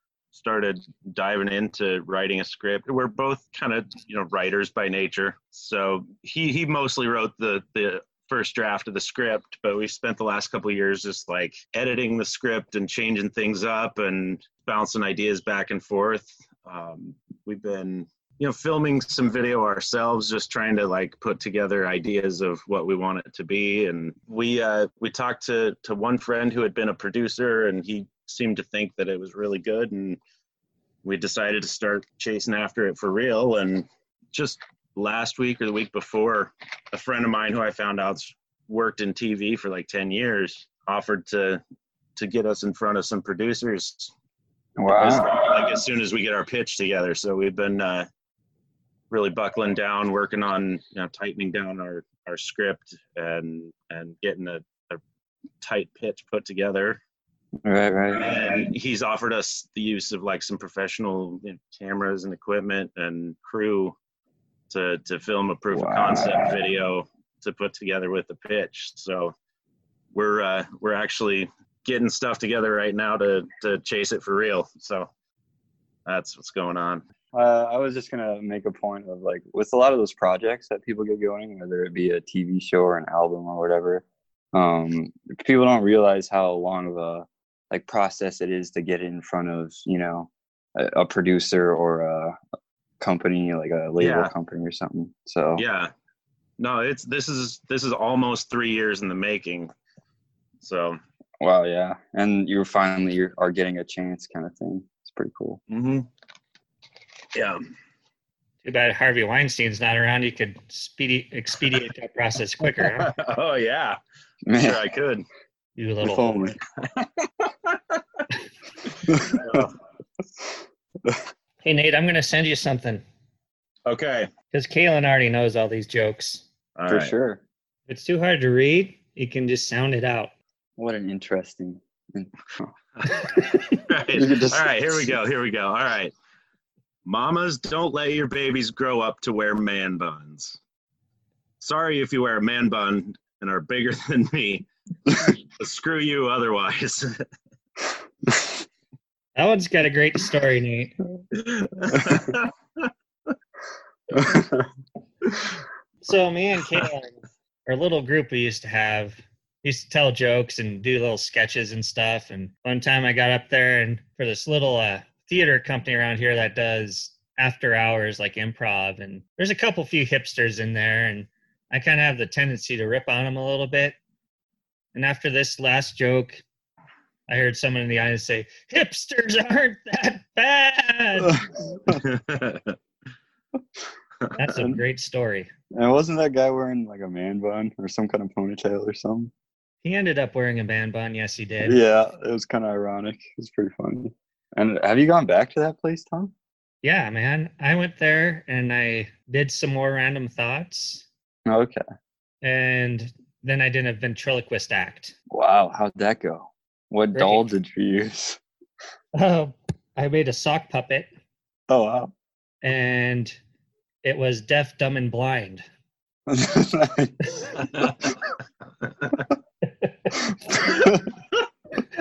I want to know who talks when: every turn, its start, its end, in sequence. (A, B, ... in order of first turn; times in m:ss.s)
0:00.3-0:30.2 A
0:31.0-0:41.6 A
0:42.2-0:44.1 A
0:44.8-0:45.5 B
0:44.9-0:48.1 A
0:49.1-0:55.0 A
0:55.6-0:57.0 A
0:57.6-0:58.6 B
0:58.1-1:04.0 A
1:04.7-1:09.3 A
1:05.7-1:06.6 B
1:10.1-1:15.1 A
1:16.1-1:17.0 A
1:17.3-1:32.4 B
1:33.0-1:35.6 B
1:34.0-1:34.3 A
1:35.6-1:35.9 A
1:36.6-1:39.7 A
1:40.6-1:41.0 A
1:41.4-1:45.6 B
1:45.7-1:46.1 A
1:47.3-1:47.6 A
1:48.6-1:53.1 C
1:52.8-1:54.0 A
1:54.5-1:54.8 B
1:54.6-1:55.2 A
1:55.8-1:56.5 C
1:56.0-1:56.6 B
1:56.8-1:58.0 A
1:59.0-1:59.7 A
1:59.1-1:59.6 B
2:01.6-2:03.0 C
2:03.9-2:04.3 A
2:04.5-2:06.4 C
2:06.8-2:07.1 A
2:06.9-2:07.4 B
2:07.9-2:10.3 C
2:10.8-2:12.7 B
2:13.4-2:13.8 C
2:13.9-2:16.1 A
2:14.1-2:15.1 B
2:17.0-2:20.6 A
2:21.6-2:24.7 A
2:25.6-2:27.2 A
2:29.4-2:31.0 C
2:31.3-2:32.9 A
2:31.9-2:32.3 B
2:34.1-2:34.7 B
2:36.0-2:37.2 C
2:37.7-2:54.0 C
2:55.0-2:56.4 C
2:57.3-3:01.4 C
3:01.2-3:02.0 B
3:02.0-3:02.8 A
3:04.4-3:05.5 C
3:04.5-3:04.8 B
3:05.7-3:09.3 B
3:09.8-3:11.8 C
3:11.6-3:16.3 B
3:16.8-3:21.1 C
3:21.5-3:21.8 B
3:22.4-3:25.2 C
3:25.3-3:28.4 B
3:27.1-3:27.5 C
3:29.2-3:31.1 C
3:31.7-3:32.1 B
3:32.6-3:33.4 C
3:34.0-3:35.6 C
3:36.3-3:37.9 B
3:39.8-3:40.2 C
3:40.2-3:41.1 B